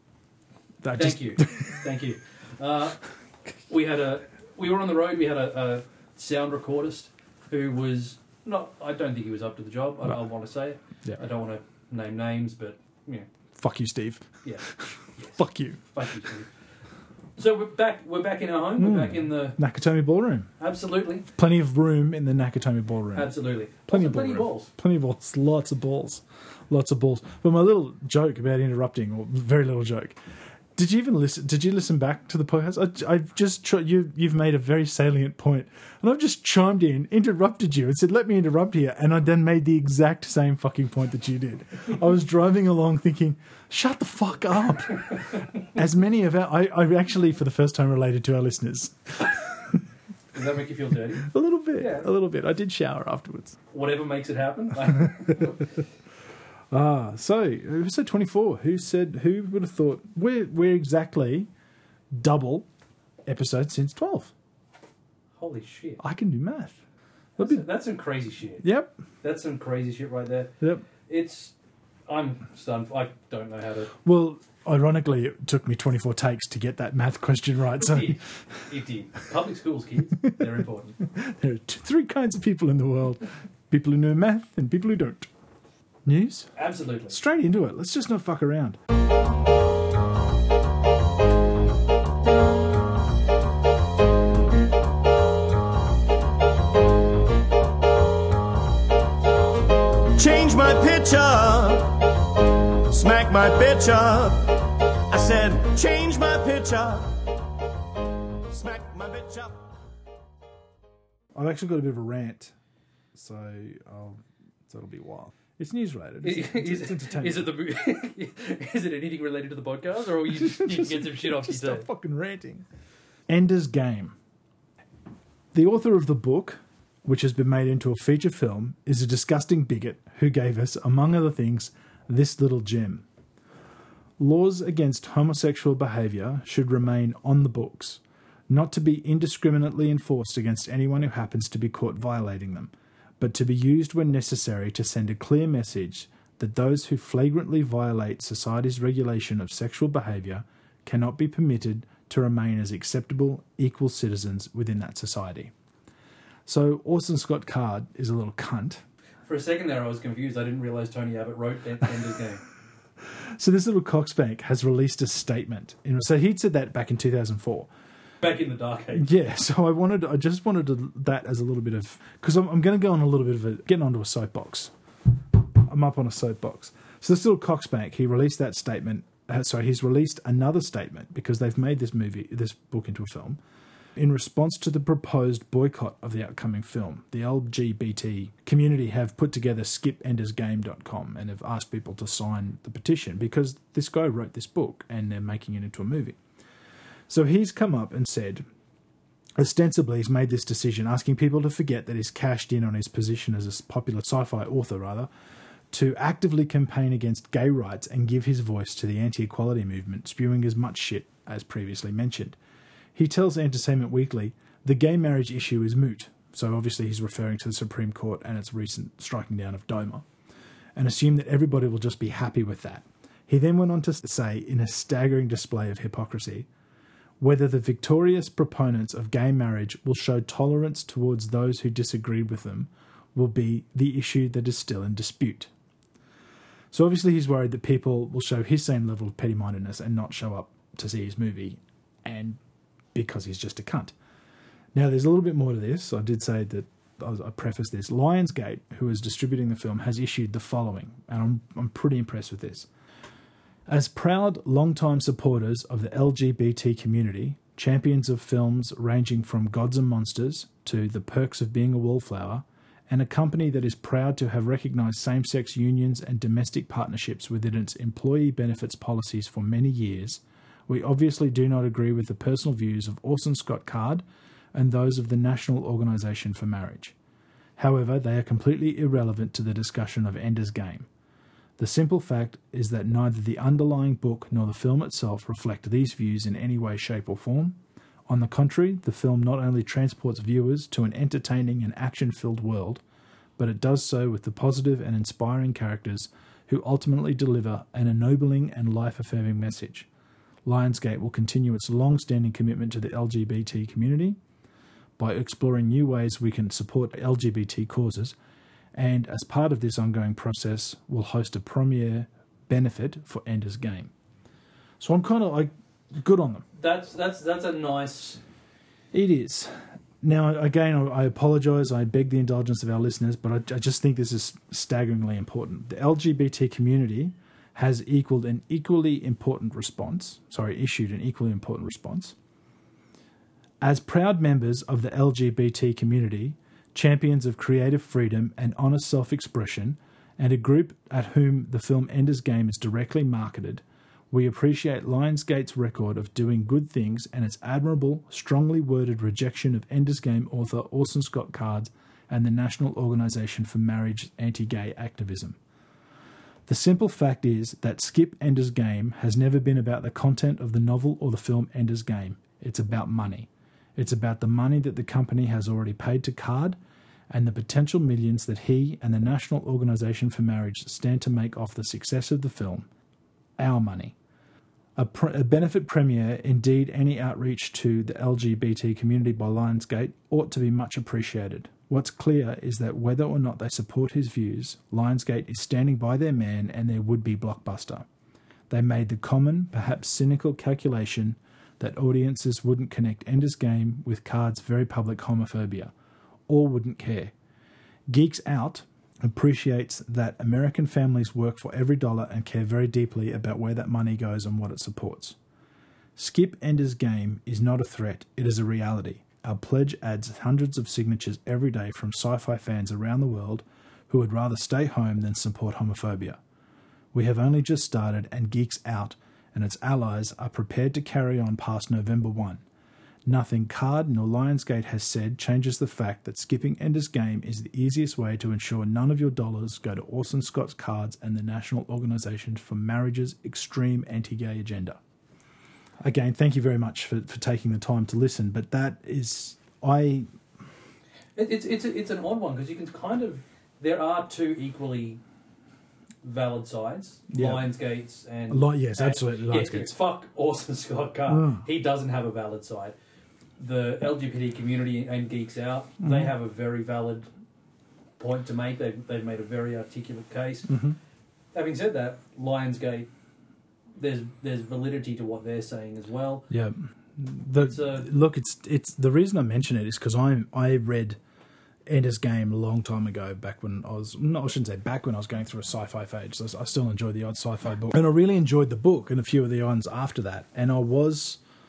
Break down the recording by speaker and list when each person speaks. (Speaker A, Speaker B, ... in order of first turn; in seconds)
Speaker A: 0.8-1.8, 13.6-16.3, 18.8-20.5, 21.3-23.3, 23.8-30.2, 30.7-49.8, 51.2-53.6, 56.7-61.5, 62.1-62.7, 63.2-64.3, 66.0-66.8, 67.4-67.6, 68.6-68.9, 70.6-70.8, 74.0-78.6, 81.0-85.3, 86.0-86.5, 87.1-88.8, 111.3-112.5, 113.1-117.5, 120.3-122.6, 123.3-124.2, 125.5-133.0, 134.2-155.5, 156.4-158.8, 163.2-167.7, 168.9-174.7, 175.6-183.4, 183.9-196.2, 197.1-198.4, 199.4-205.1, 205.7-212.4, 212.9-220.0, 220.8-226.5, 227.2-235.5, 236.7-242.4, 242.9-243.9, 244.7-252.7, 253.7-276.9, 277.6-280.9, 281.6-292.8, 293.4-299.9, 300.4-304.2, 305.0-308.1, 308.7-313.9, 314.8-316.4, 318.9-332.1, 333.6-355.4, 356.5-366.6, 367.1-372.7, 373.4-373.9, 374.8-387.9, 388.5-395.7, 396.3-397.1, 397.9-405.1, 405.9-416.2, 416.9-422.4, 423.1-434.8, 435.8-440.1, 447.1-447.4, 448.3-449.7, 451.1-451.4, 455.8-456.1, 460.5-460.8, 466.3-471.0, 471.7-481.2
Speaker B: 0.9-3.0, 3.7-13.3, 15.9-16.5, 17.4-19.6, 20.6-21.3, 23.1-24.7, 50.3-52.1, 53.7-55.8, 65.4-66.0, 67.4-68.6, 69.2-71.5, 72.0-73.9, 77.8-81.0, 86.5-87.2, 116.2-121.8, 159.2-162.4, 168.2-169.1, 316.5-318.2, 441.1-445.0, 446.0-452.7, 453.4-457.1, 458.0-460.5, 461.3-462.9, 463.7-466.3, 467.4-467.9
Speaker C: 100.1-102.1, 102.9-107.3, 108.5-109.6